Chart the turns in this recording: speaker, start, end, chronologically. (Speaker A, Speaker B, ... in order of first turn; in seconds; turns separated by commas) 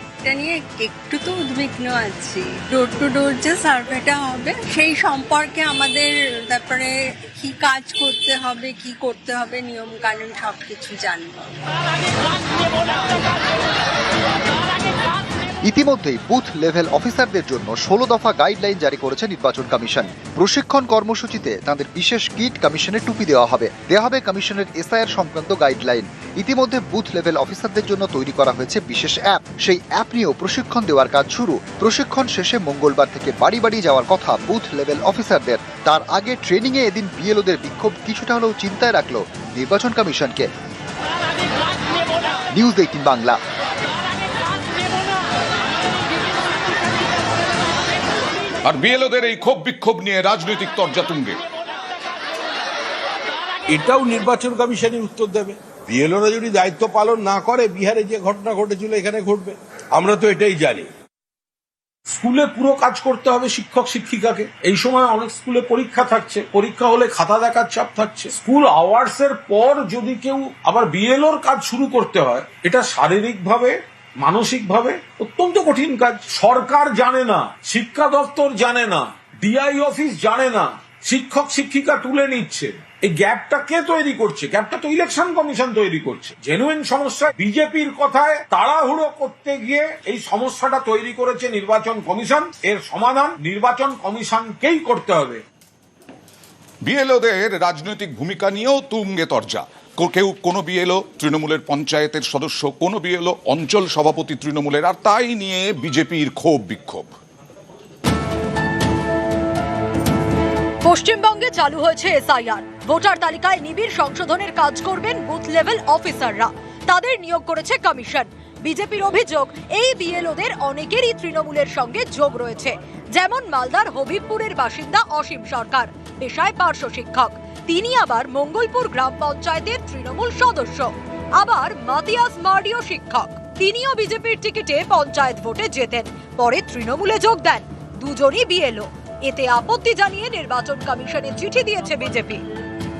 Speaker A: 0.2-11.5, Speaker B: 15.6-40.5, Speaker B: 42.5-43.4, Speaker C: 48.6-51.4, Speaker D: 53.7-56.0, Speaker D: 56.7-59.3, Speaker D: 60.0-60.8, Speaker D: 62.1-95.4, Speaker C: 96.8-107.1, Speaker E: 110.8-142.4